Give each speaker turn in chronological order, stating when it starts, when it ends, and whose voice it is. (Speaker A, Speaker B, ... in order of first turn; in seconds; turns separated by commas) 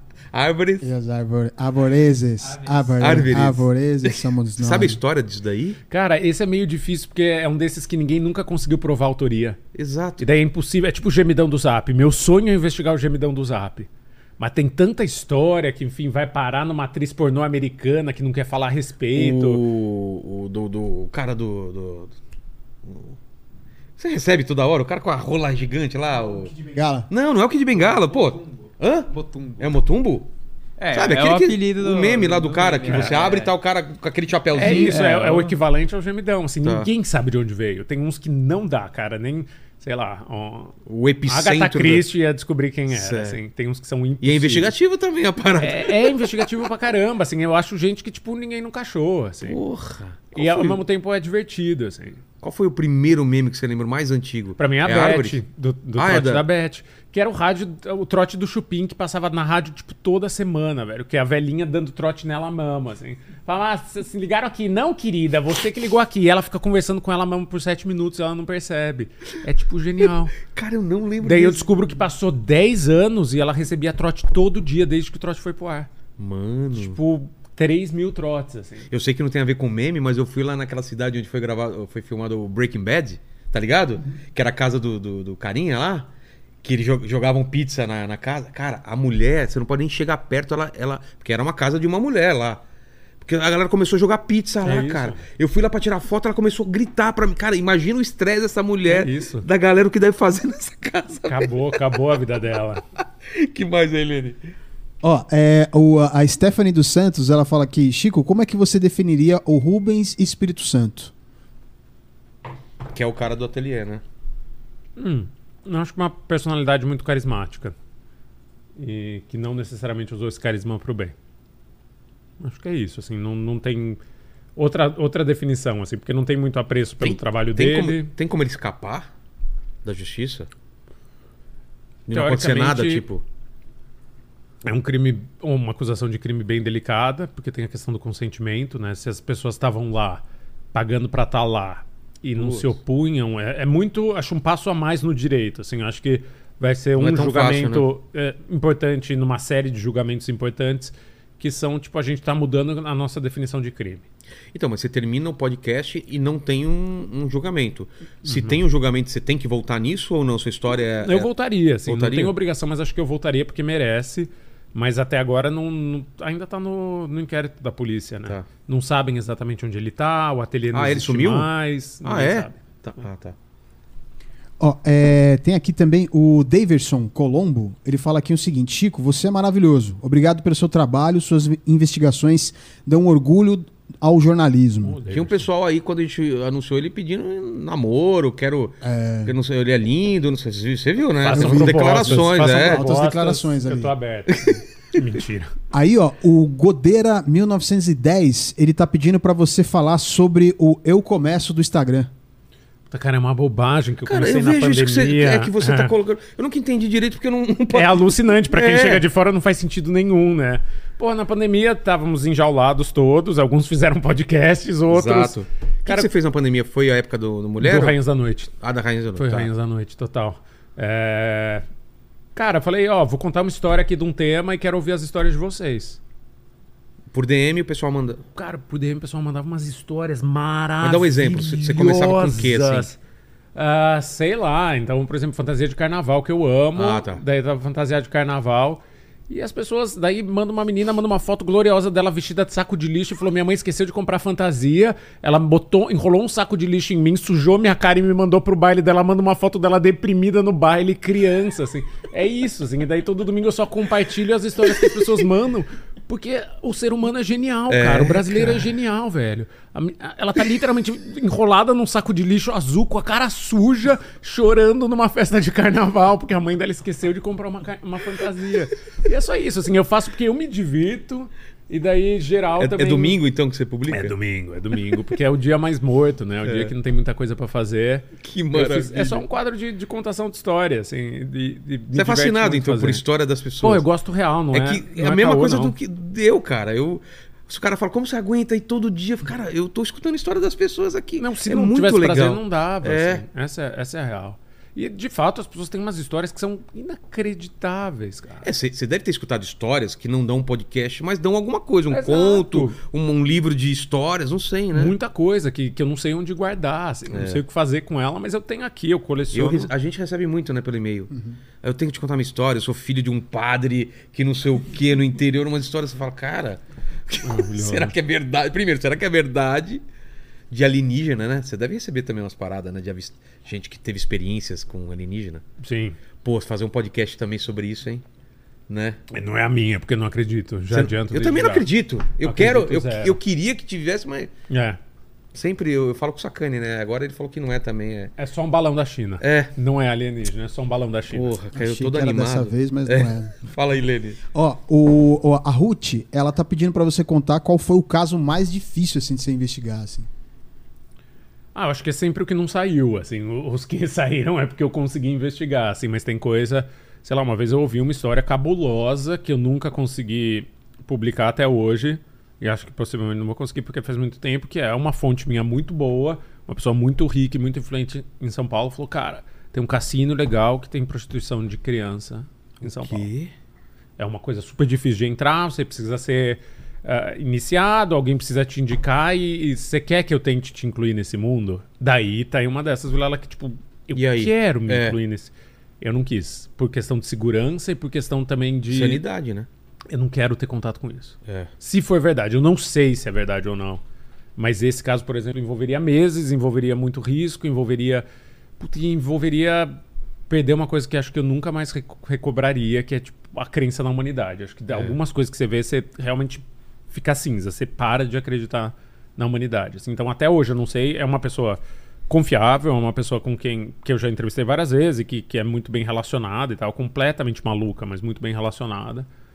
Speaker A: 0.3-0.9, Speaker B: 0.8-5.0, Speaker A: 3.0-5.8, Speaker C: 5.9-9.6, Speaker A: 9.7-10.3, Speaker C: 10.2-19.6, Speaker A: 19.1-22.1, Speaker A: 22.8-23.2, Speaker A: 24.0-26.6, Speaker B: 26.6-27.1, Speaker A: 27.1-30.3, Speaker D: 29.1-29.6, Speaker D: 30.8-33.5, Speaker A: 30.9-35.0, Speaker C: 32.9-33.1, Speaker D: 34.5-35.5, Speaker C: 34.5-40.8, Speaker A: 40.9-42.0, Speaker C: 41.3-44.7, Speaker A: 42.9-43.4, Speaker A: 44.2-46.5, Speaker C: 45.6-49.6, Speaker A: 49.4-50.8, Speaker C: 50.3-52.2, Speaker A: 52.4-55.4, Speaker C: 54.6-70.3, Speaker A: 56.0-56.4, Speaker A: 70.3-71.8, Speaker C: 71.2-75.9, Speaker A: 76.2-77.0, Speaker C: 76.7-78.9, Speaker A: 78.9-86.1, Speaker A: 86.6-92.6, Speaker A: 93.2-102.0, Speaker C: 94.6-95.2, Speaker C: 98.9-99.5, Speaker C: 101.3-102.8, Speaker A: 103.3-104.4, Speaker B: 105.0-111.1, Speaker A: 112.9-114.0, Speaker C: 115.0-117.7, Speaker C: 118.8-121.1, Speaker C: 122.4-124.0, Speaker C: 124.5-128.1, Speaker A: 127.0-129.1, Speaker A: 129.8-130.5, Speaker A: 132.1-133.2, Speaker C: 132.1-133.0, Speaker C: 134.6-140.2, Speaker C: 140.7-154.0, Speaker A: 142.3-142.8, Speaker A: 147.0-147.8, Speaker A: 154.5-161.3, Speaker C: 158.2-158.6, Speaker C: 161.0-172.6, Speaker A: 161.8-162.3, Speaker A: 170.7-171.5, Speaker A: 172.0-173.3, Speaker B: 174.6-185.0, Speaker C: 184.8-185.4, Speaker A: 185.1-192.8, Speaker B: 188.8-189.3, Speaker C: 191.2-195.5, Speaker B: 191.3-193.9, Speaker B: 195.7-202.1, Speaker C: 202.9-205.9, Speaker A: 204.1-209.1, Speaker C: 207.7-216.1, Speaker A: 214.9-218.0, Speaker C: 217.6-218.5, Speaker A: 218.6-219.5, Speaker C: 219.2-221.6, Speaker C: 222.3-226.0, Speaker A: 227.1-228.2, Speaker C: 228.3-233.0, Speaker A: 230.8-232.9, Speaker C: 233.5-273.2, Speaker A: 236.8-237.2, Speaker A: 257.7-258.7, Speaker A: 272.6-274.1, Speaker C: 273.9-283.0, Speaker A: 276.4-276.7, Speaker A: 278.2-279.2, Speaker A: 281.9-283.9, Speaker C: 283.6-285.8, Speaker A: 284.5-293.2, Speaker C: 291.2-298.5, Speaker A: 298.4-304.9, Speaker C: 301.9-302.8, Speaker C: 304.7-309.7, Speaker A: 307.1-307.4, Speaker A: 309.3-319.8, Speaker C: 317.2-317.9, Speaker A: 320.5-325.4, Speaker C: 325.6-326.0, Speaker A: 326.2-328.0, Speaker A: 328.7-329.0, Speaker C: 329.1-331.6, Speaker A: 330.7-334.3, Speaker C: 332.2-333.2, Speaker C: 334.5-334.8, Speaker A: 335.3-338.1, Speaker C: 338.2-341.3, Speaker A: 339.2-339.5, Speaker A: 341.1-344.2, Speaker B: 341.5-343.3, Speaker B: 344.3-350.1, Speaker C: 351.5-373.1, Speaker A: 372.6-373.3, Speaker C: 374.0-389.0, Speaker A: 383.9-385.0, Speaker A: 388.7-389.5, Speaker C: 389.9-393.8, Speaker A: 391.2-391.5, Speaker C: 394.4-398.0, Speaker C: 398.6-419.1, Speaker A: 404.7-404.9